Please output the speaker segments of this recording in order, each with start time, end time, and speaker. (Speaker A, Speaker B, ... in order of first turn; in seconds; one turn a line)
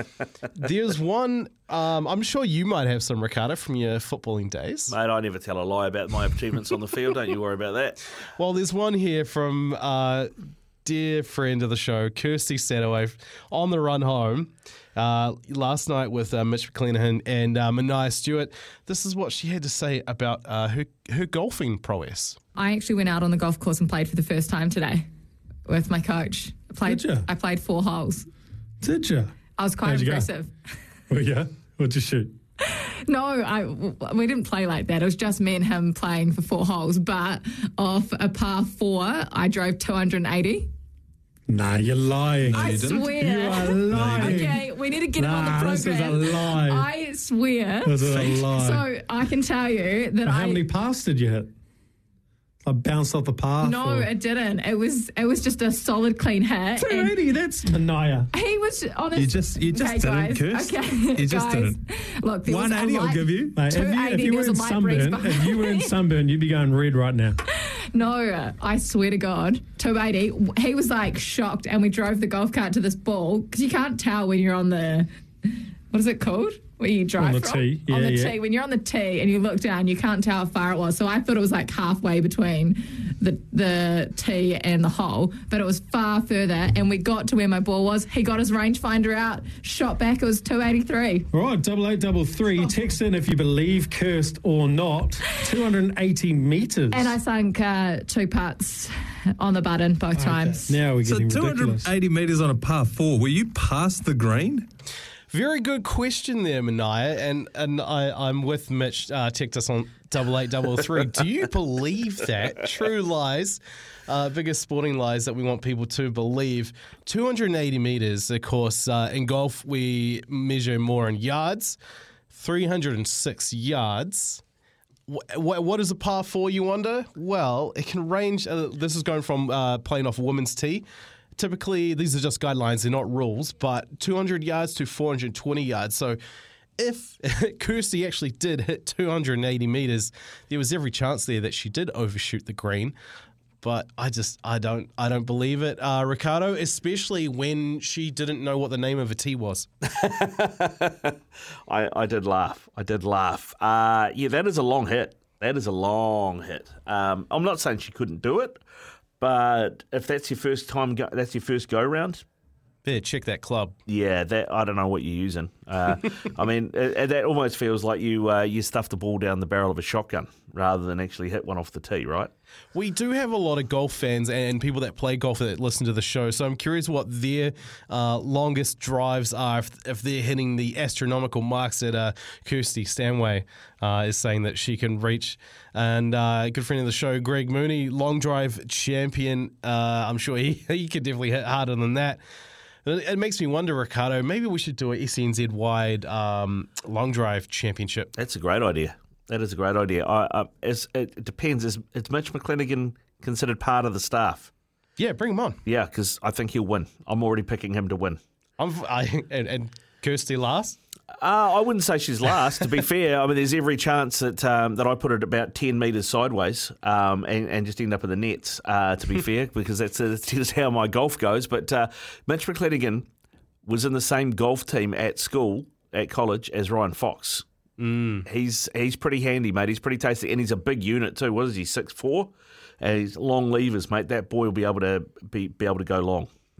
Speaker A: 0.5-4.9
Speaker B: 4.9-8.0
Speaker A: 8.4-10.3
Speaker A: 10.8-22.4
Speaker C: 22.5-25.1
Speaker C: 25.6-28.3
Speaker D: 26.9-27.3
Speaker D: 28.8-29.3
Speaker C: 29.6-30.5
Speaker D: 29.8-30.3
Speaker D: 31.1-32.3
Speaker C: 32.6-40.7
Speaker D: 41.5-44.6
Speaker E: 42.4-44.6
Speaker C: 42.5-50.6
Speaker D: 45.1-46.9
Speaker D: 47.8-48.8
Speaker E: 48.1-48.5
Speaker D: 50.2-51.5
Speaker D: 52.6-54.1
Speaker C: 53.6-57.2
Speaker D: 56.9-58.3
Speaker C: 58.3-66.0
Speaker E: 59.1-61.8
Speaker E: 62.5-63.7
Speaker D: 63.5-67.3
Speaker C: 67.5-91.3
Speaker D: 77.2-78.4
Speaker D: 91.3-97.1
Speaker C: 96.9-100.8
Speaker D: 100.2-101.9
Speaker E: 101.0-104.7
Speaker A: 105.3-121.8
Speaker A: 122.3-124.4
Speaker A: 125.1-130.8
Speaker A: 131.3-136.2
Speaker A: 136.8-142.9
Speaker A: 143.6-149.7
Speaker B: 149.9-151.2
Speaker B: 151.7-158.6
Speaker B: 159.2-162.2
Speaker A: 162.8-163.8
Speaker B: 163.8-172.3
Speaker A: 172.7-192.2
Speaker A: 192.8-198.1
Speaker B: 198.2-204.5
Speaker A: 205.0-205.6
Speaker B: 205.7-208.2
Speaker A: 208.6-210.8
Speaker B: 211.2-223.1
Speaker B: 223.7-227.4
Speaker A: 227.8-228.2
Speaker B: 228.2-236.3